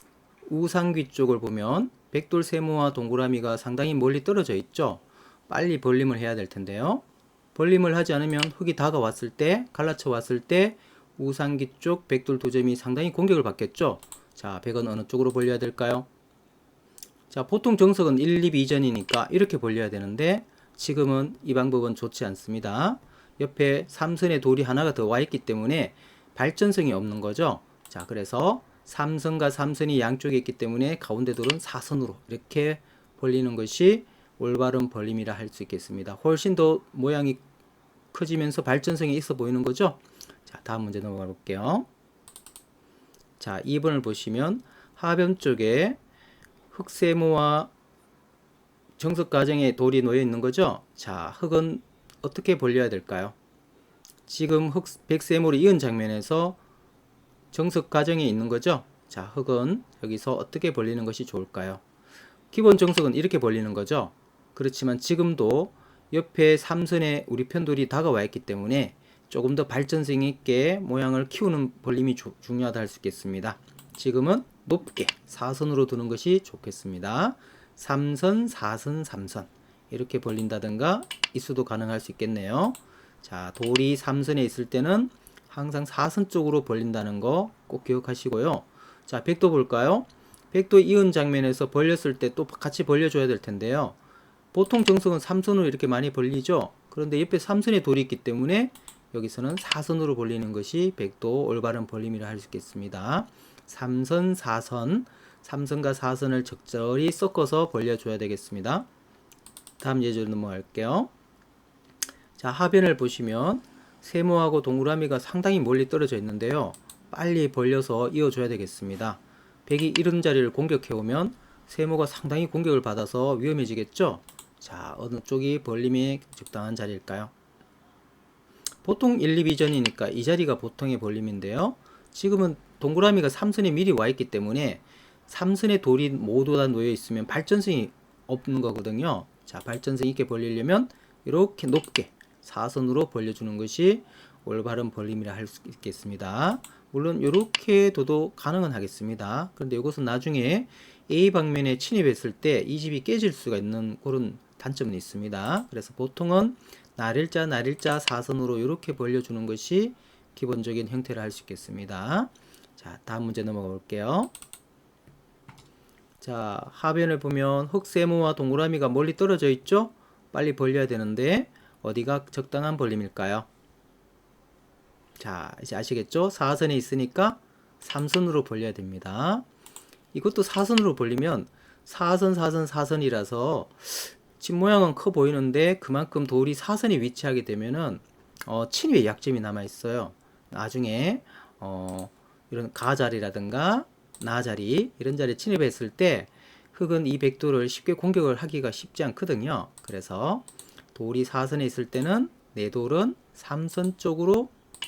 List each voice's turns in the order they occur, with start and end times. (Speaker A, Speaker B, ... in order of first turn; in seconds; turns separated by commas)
Speaker A: 0.5-7.0, Speaker A: 7.5-16.1, Speaker A: 17.3-37.4, Speaker A: 38.1-41.9, Speaker A: 43.4-46.0, Speaker A: 46.7-47.7, Speaker A: 49.0-53.4, Speaker A: 54.3-56.6, Speaker A: 57.5-61.8, Speaker A: 62.5-94.0, Speaker A: 94.5-108.9, Speaker A: 109.8-111.1, Speaker A: 112.4-127.3, Speaker A: 128.8-164.3, Speaker A: 166.2-173.5, Speaker A: 175.2-179.4, Speaker A: 180.1-204.5